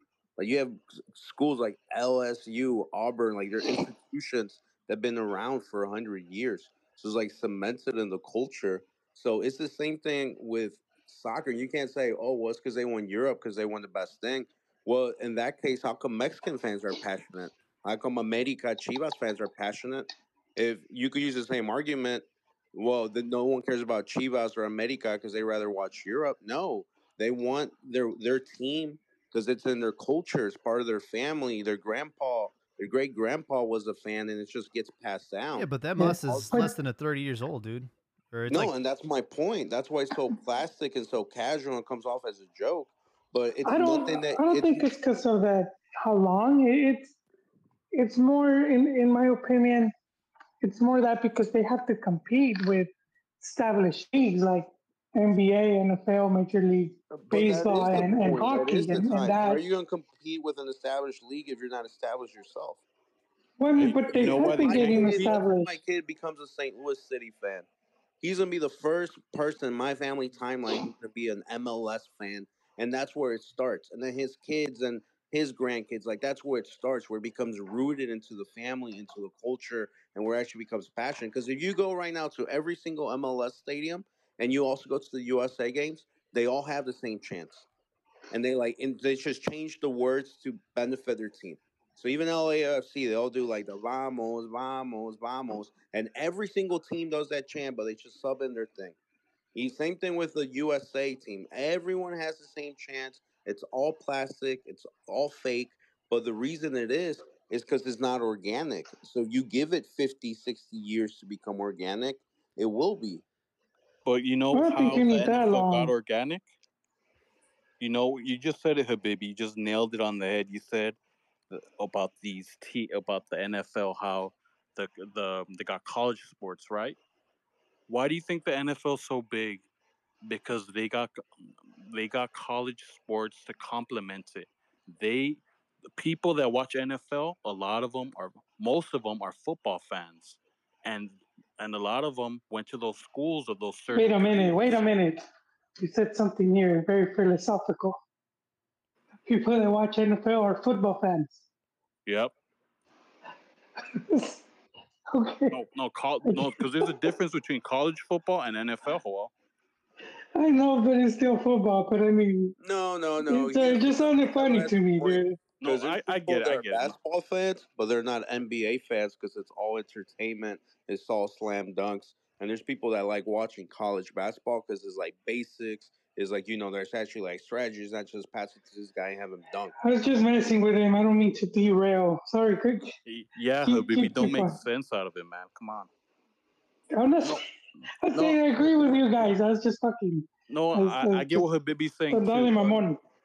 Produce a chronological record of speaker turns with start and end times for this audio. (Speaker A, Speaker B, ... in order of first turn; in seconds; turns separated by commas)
Speaker A: 0.4-36.6, Speaker B: 35.5-38.7, Speaker C: 36.0-36.8, Speaker A: 38.5-44.9, Speaker C: 43.6-47.1, Speaker C: 47.9-49.9, Speaker C: 50.6-52.9, Speaker C: 53.4-59.6, Speaker A: 57.1-62.8, Speaker C: 63.6-65.7, Speaker D: 63.8-65.4, Speaker A: 64.1-67.7, Speaker A: 68.2-87.7, Speaker A: 88.3-99.0, Speaker A: 99.5-113.2, Speaker D: 114.0-116.5, Speaker C: 114.5-115.9, Speaker D: 117.8-121.0, Speaker D: 121.5-127.0, Speaker D: 127.9-129.7, Speaker D: 130.2-144.9, Speaker C: 143.9-145.2, Speaker C: 145.8-148.0, Speaker C: 149.3-151.4, Speaker D: 152.1-152.3, Speaker C: 153.9-154.4, Speaker C: 155.1-155.6, Speaker D: 155.5-159.3, Speaker C: 156.2-156.9, Speaker C: 160.3-162.6, Speaker A: 162.6-179.7, Speaker C: 163.2-165.4, Speaker D: 165.6-166.9, Speaker C: 179.8-182.9, Speaker D: 183.1-185.9, Speaker C: 183.6-184.6, Speaker C: 186.9-187.4, Speaker C: 188.0-191.5, Speaker D: 188.1-188.4, Speaker D: 190.5-192.8, Speaker C: 192.1-193.0